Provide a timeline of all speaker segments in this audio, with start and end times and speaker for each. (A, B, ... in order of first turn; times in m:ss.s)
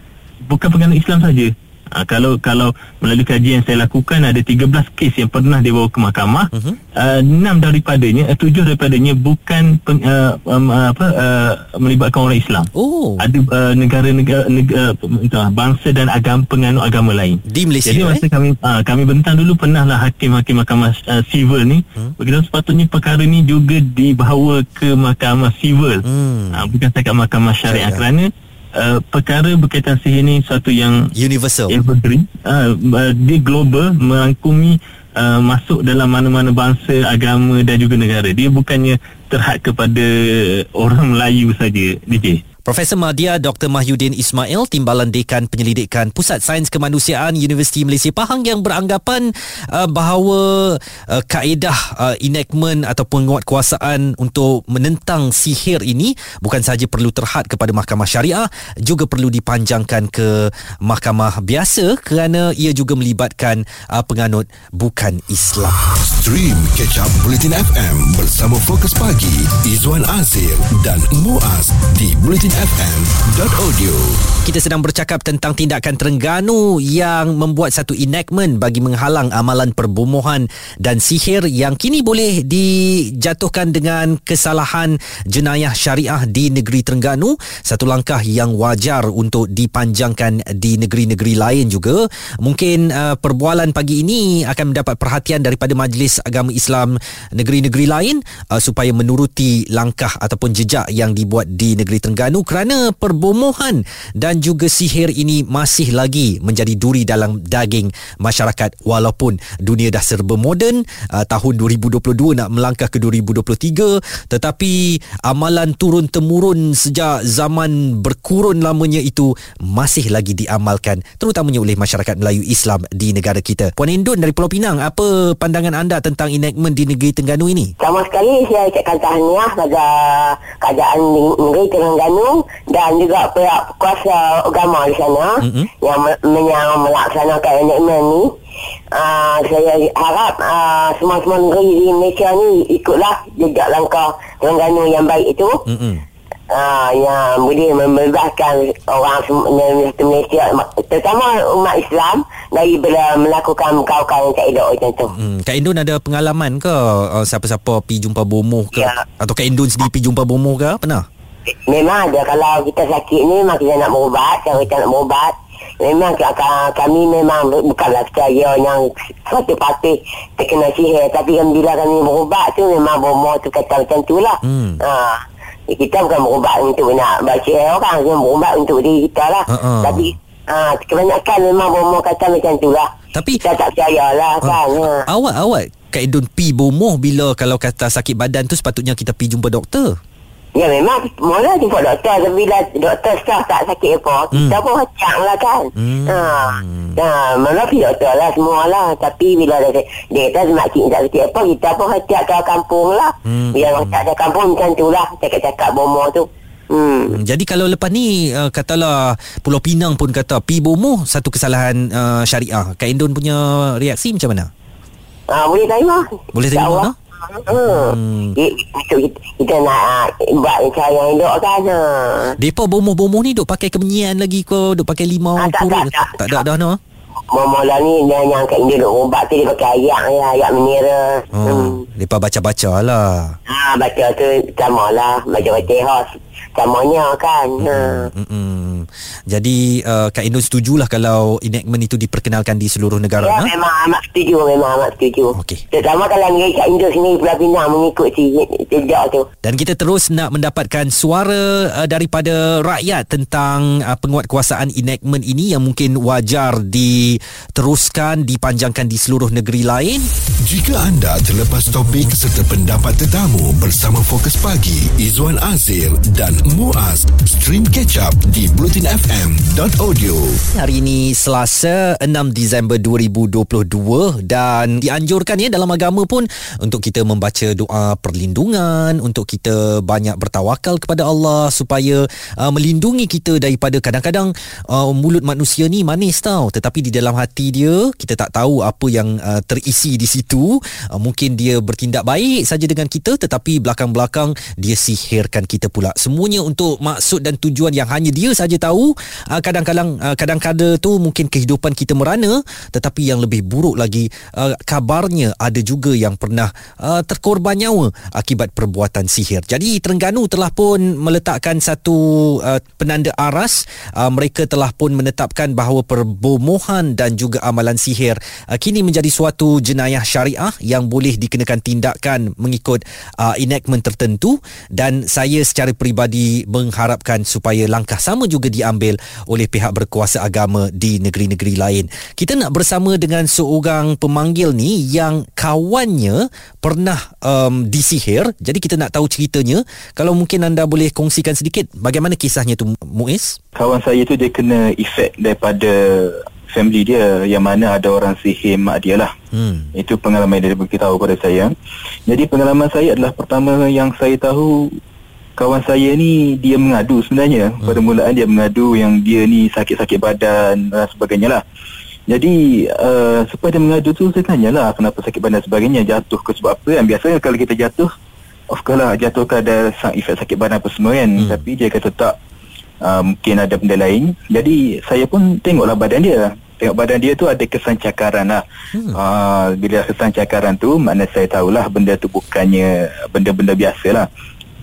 0:00.4-0:31.1 A
0:06.5-0:06.8 B
0:12.7-0:13.3 B
0:17.5-0:18.2 B
0:26.0-0:26.7 B
0:27.7-0:28.0 B
0:31.1-0:31.8 B
0:31.7-0:42.4 A
0:42.1-1:05.8 B
1:06.0-1:14.2 C
1:14.4-2:07.7 B
2:07.8-2:18.3 D
2:15.4-2:15.7 B
2:18.9-2:25.6 D
2:25.7-2:26.0 B
2:26.5-2:35.1 D
2:35.1-2:41.0 B
2:38.7-2:39.0 D
2:41.7-3:02.9 D
2:54.4-2:54.8 B
2:59.5-3:00.1 B
3:03.1-3:03.4 B
3:03.4-3:05.1 D
3:04.4-3:10.0 B
3:10.5-3:27.2 D
3:14.3-3:14.6 B
3:15.8-3:17.0 B
3:23.2-3:24.0 B
3:27.1-3:34.5 B
3:35.3-3:42.4 D
3:36.3-3:36.9 B
3:37.5-3:38.4 B
3:42.4-3:46.8 B
3:45.4-3:46.4 D
3:47.3-3:51.8 D
3:51.3-3:53.4 B
3:53.5-3:58.1 D
3:57.6-4:03.5 B
4:03.2-4:09.3 D
4:05.3-4:05.6 B
4:09.4-4:20.1 B
4:20.4-4:30.4 C
4:30.5-5:43.4 B
5:43.5-5:49.1 E
5:49.3-5:49.7 B
5:49.7-5:51.5 E
5:52.1-5:54.7 E
5:55.4-6:01.4 E
6:02.1-6:07.9 E
6:08.5-6:12.1 E
6:11.2-6:11.4 B
6:12.8-6:18.4 E
6:18.7-6:19.0 B
6:18.9-6:24.1 E